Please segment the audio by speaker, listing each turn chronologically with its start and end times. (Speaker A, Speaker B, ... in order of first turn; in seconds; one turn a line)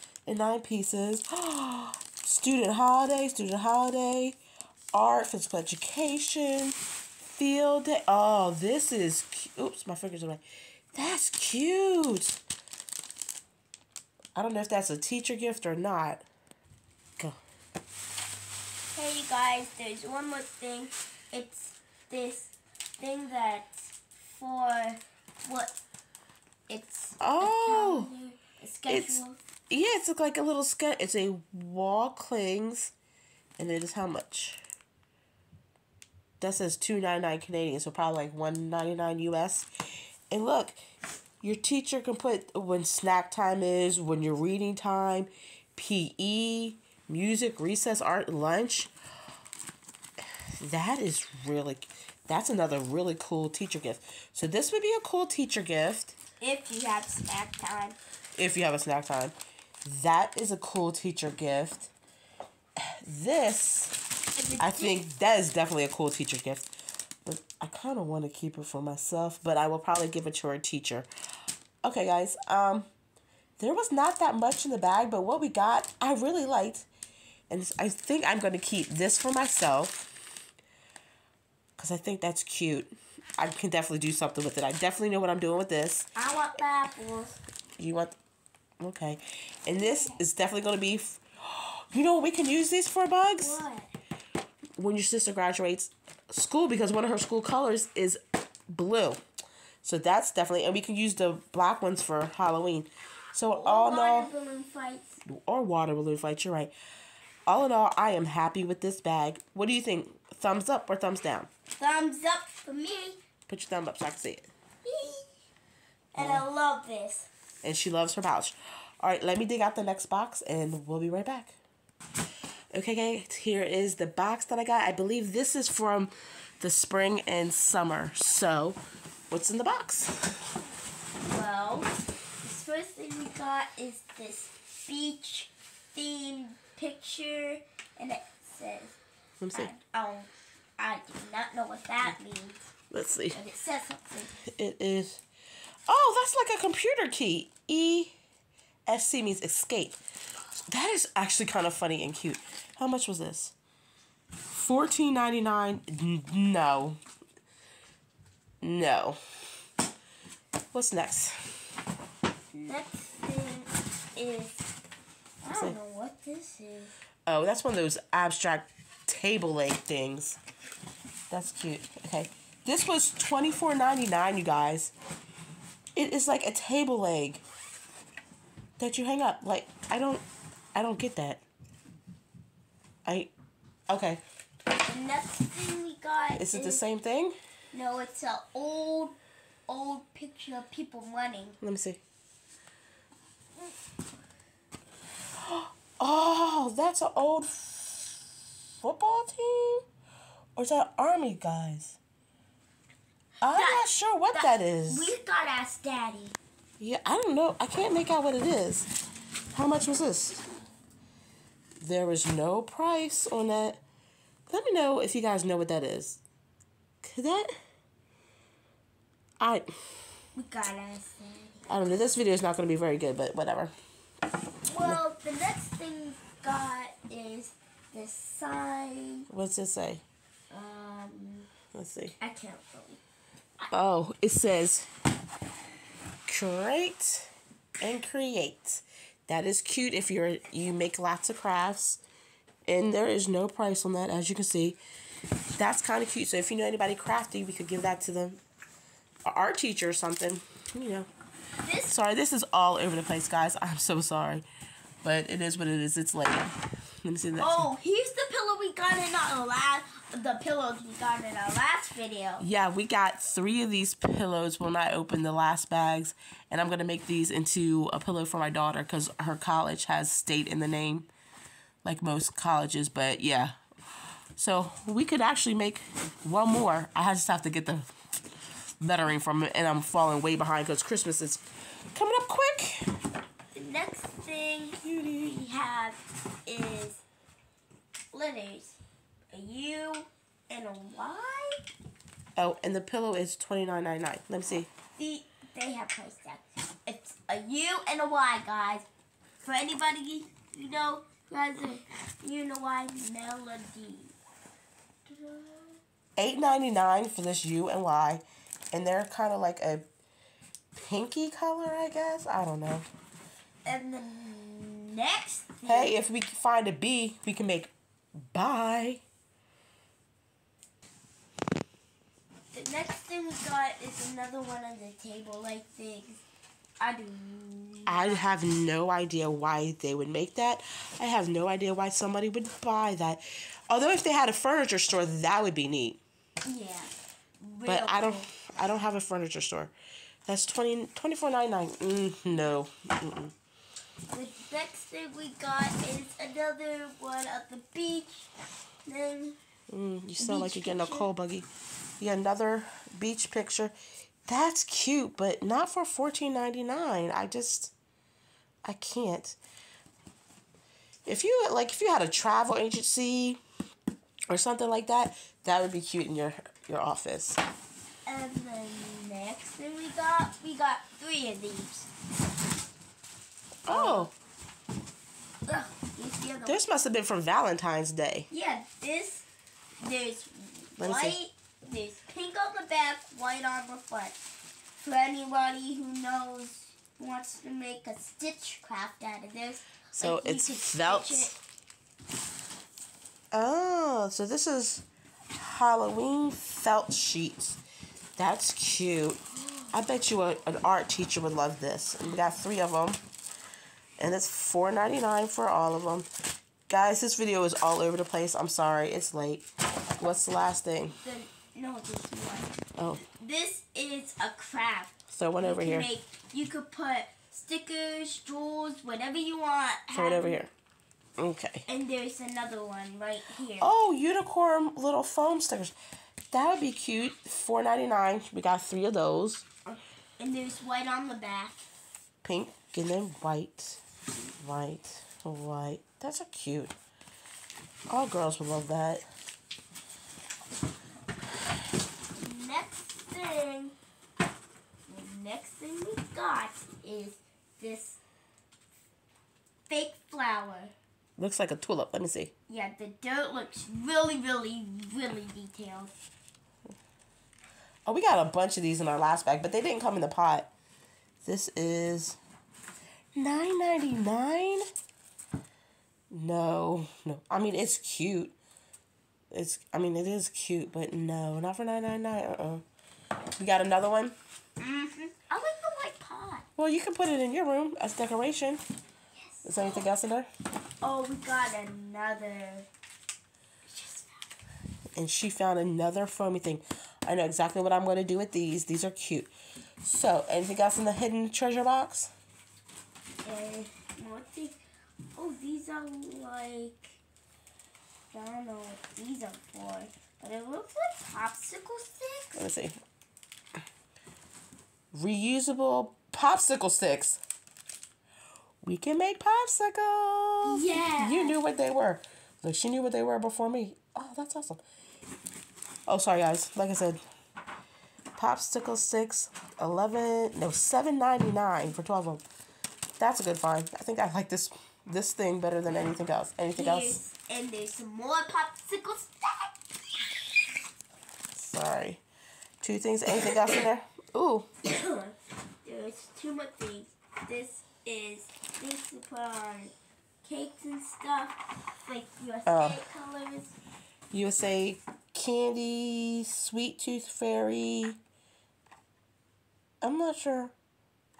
Speaker A: 0.3-4.4
Speaker A: 4.9-10.4
Speaker A: 10.9-12.4
Speaker A: 14.3-16.2
Speaker B: 18.9-25.8
Speaker B: 26.7-29.4
Speaker A: 27.2-28.1
Speaker A: 28.9-32.9
Speaker A: 33.6-34.6
Speaker A: 36.4-39.7
Speaker A: 40.3-40.8
Speaker A: 41.4-48.9
Speaker A: 50.6-56.1
Speaker B: 56.4-58.0
Speaker A: 58.4-61.9
Speaker A: 63.0-64.0
Speaker B: 64.3-65.0
Speaker A: 64.6-66.7
Speaker A: 67.2-71.1
Speaker A: 71.8-72.9
Speaker A: 73.6-76.9
Speaker A: 77.5-80.0
Speaker A: 81.8-86.1
Speaker B: 86.2-87.4
Speaker A: 87.8-88.1
Speaker A: 88.8-93.6
Speaker B: 89.7-90.2
Speaker B: 93.3-93.9
Speaker A: 94.8-98.2
Speaker A: 98.7-99.2
Speaker A: 99.8-104.3
Speaker B: 103.6-105.2
Speaker A: 105.2-106.7
Speaker A: 107.5-111.5
Speaker B: 111.8-113.2
Speaker A: 113.5-114.5
Speaker B: 114.8-115.3
Speaker B: 116.1-117.3
Speaker A: 116.2-116.5
Speaker A: 117.6-121.6
Speaker A: 122.7-128.8
Speaker A: 129.3-130.4
Speaker B: 131.2-139.0
Speaker A: 139.4-139.7
Speaker B: 139.5-142.7
Speaker A: 142.9-143.4
Speaker B: 143.3-144.3
Speaker A: 144.4-145.2
Speaker A: 145.9-148.1
Speaker A: 148.9-150.0
Speaker A: 150.7-153.5
Speaker A: 154.5-157.0
Speaker A: 158.6-159.2
Speaker A: 160.7-161.5
Speaker B: 162.7-164.7
Speaker B: 165.4-166.9
Speaker A: 165.5-165.8
Speaker A: 167.2-170.4
Speaker A: 171.3-174.9
Speaker A: 175.9-177.4
Speaker A: 178.8-180.2
Speaker A: 180.7-181.4
Speaker A: 183.0-183.3
Speaker A: 183.9-184.2
Speaker B: 184.7-186.8
Speaker A: 186.3-187.3
Speaker B: 187.7-189.2
Speaker B: 189.7-191.6
Speaker A: 191.6-192.0
Speaker A: 195.4-199.8
Speaker A: 200.6-202.0
Speaker A: 203.4-205.1
Speaker B: 203.5-206.4
Speaker A: 206.8-208.9
Speaker A: 209.5-210.4
Speaker A: 211.8-213.8
Speaker A: 214.5-216.2
Speaker A: 217.0-217.5
Speaker A: 219.4-219.7
Speaker B: 220.3-221.7
Speaker A: 221.7-223.7
Speaker B: 224.7-229.3
Speaker A: 229.3-230.0
Speaker B: 230.5-231.5
Speaker A: 231.7-232.2
Speaker B: 232.2-233.0
Speaker A: 233.7-234.9
Speaker A: 236.3-242.0
Speaker A: 242.7-244.8
Speaker A: 245.6-248.4
Speaker A: 249.2-251.1
Speaker B: 251.6-252.0
Speaker A: 251.8-254.4
Speaker A: 255.0-257.7
Speaker B: 257.4-262.4
Speaker A: 262.4-271.1
Speaker A: 271.8-273.6
Speaker A: 274.4-277.9
Speaker A: 278.8-281.4
Speaker A: 281.9-282.9
Speaker B: 283.5-287.0
Speaker B: 288.1-288.8
Speaker B: 289.3-291.6
Speaker A: 292.4-294.7
Speaker B: 295.0-298.9
Speaker B: 299.4-304.1
Speaker B: 305.1-305.8
Speaker A: 306.2-309.8
Speaker A: 310.7-312.9
Speaker B: 313.6-315.9
Speaker A: 315.6-317.7
Speaker A: 318.2-319.0
Speaker B: 322.5-326.2
Speaker B: 326.8-328.2
Speaker A: 327.9-336.0
Speaker B: 336.4-338.3
Speaker A: 337.6-339.7
Speaker A: 340.2-343.3
Speaker B: 344.1-348.3
Speaker B: 348.8-349.4
Speaker A: 349.7-351.5
Speaker B: 350.2-351.1
Speaker A: 352.0-353.7
Speaker A: 354.3-357.7
Speaker A: 358.6-359.4
Speaker A: 361.1-363.4
Speaker A: 364.3-367.4
Speaker B: 368.1-371.9
Speaker A: 373.6-374.1
Speaker B: 373.7-374.1
Speaker B: 375.4-376.6
Speaker A: 376.4-378.3
Speaker B: 378.3-379.3
Speaker B: 379.8-384.2
Speaker A: 380.8-381.2
Speaker B: 384.8-391.3
Speaker A: 389.9-391.4
Speaker A: 393.3-397.6
Speaker A: 398.2-403.0
Speaker A: 404.0-406.1
Speaker A: 406.7-409.5
Speaker A: 410.0-411.0
Speaker B: 411.0-412.6
Speaker A: 412.8-413.0
Speaker B: 413.1-420.5
Speaker A: 415.1-415.9
Speaker A: 419.9-420.5
Speaker A: 421.2-421.6
Speaker B: 421.7-423.7
Speaker A: 423.6-425.7
Speaker A: 426.3-429.4
Speaker B: 429.7-431.6
Speaker A: 432.2-433.8
Speaker A: 434.4-436.8
Speaker A: 437.9-439.0
Speaker B: 442.1-443.7
Speaker B: 444.9-448.0
Speaker B: 449.7-450.7
Speaker A: 451.2-452.3
Speaker B: 452.5-455.9
Speaker A: 457.9-460.5
Speaker A: 461.2-462.2
Speaker A: 463.1-464.6
Speaker A: 466.1-468.3
Speaker A: 469.3-472.6
Speaker A: 473.4-474.1
Speaker B: 474.6-476.4
Speaker A: 476.6-478.6
Speaker B: 479.1-479.8
Speaker A: 479.4-480.3
Speaker B: 480.8-482.7
Speaker B: 483.6-484.4
Speaker A: 484.9-489.3
Speaker A: 489.8-492.1
Speaker B: 493.2-494.6
Speaker B: 495.1-497.0
Speaker B: 498.1-502.5
Speaker A: 502.3-502.8
Speaker A: 504.9-507.2
Speaker A: 508.6-514.6
Speaker B: 510.4-511.4
Speaker A: 515.9-517.0
Speaker A: 518.1-522.2
Speaker A: 523.0-527.0
Speaker B: 526.5-529.5
Speaker A: 531.3-532.0
Speaker A: 532.6-534.5
Speaker B: 534.6-543.5
Speaker A: 542.5-542.8
Speaker A: 544.1-548.0
Speaker A: 549.8-550.5